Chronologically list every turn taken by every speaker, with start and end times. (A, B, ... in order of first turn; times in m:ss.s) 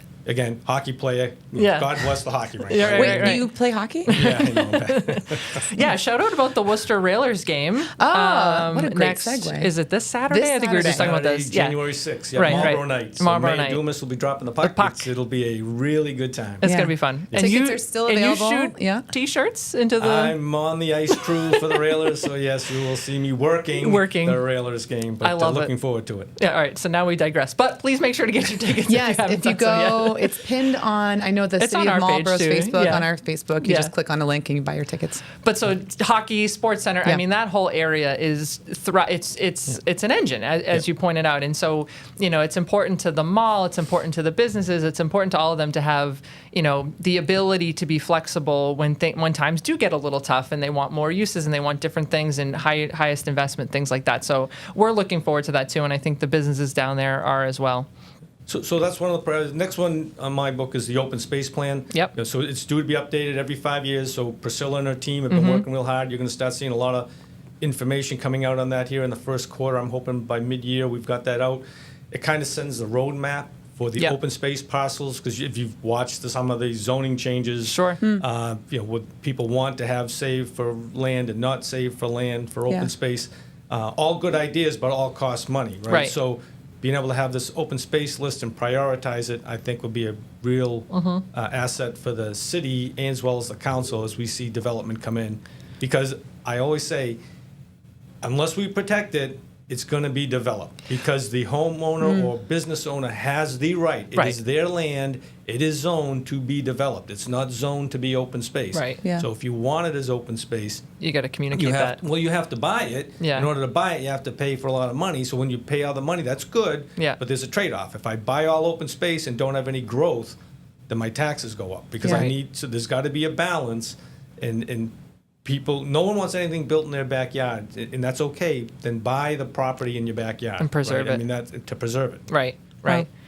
0:00.3-0:03.5 A
0:01.6-0:03.5 B
0:02.9-0:04.2 C
0:04.1-0:13.8 B
0:04.1-0:05.7 A
0:08.0-0:09.7 C
0:10.3-0:11.1 C
0:10.8-0:16.7 A
0:12.4-0:12.7 C
0:14.6-0:15.1 B
0:16.6-0:19.1 C
0:16.6-0:20.4 B
0:20.0-0:26.3 A
0:21.1-0:21.7 B
0:23.7-0:24.4 B
0:25.2-0:25.7 B
0:26.4-0:30.4 B
0:28.9-0:35.2 C
0:31.6-0:33.1 B
0:33.6-0:33.9 B
0:35.4-0:57.9 B
0:58.5-1:07.1 A
1:05.3-1:05.6 B
1:07.6-1:37.2 A
1:17.6-1:18.0 B
1:25.9-1:26.2 B
1:30.9-1:31.2 B
1:38.2-1:50.8 A
1:48.7-1:49.0 B
1:51.0-1:52.0 B
1:51.5-2:00.4 A
1:53.2-1:53.5 B
2:00.9-2:04.9 A
2:02.0-2:02.4 B
2:05.4-2:12.3 A
2:10.6-2:11.2 B
2:12.3-2:13.1 B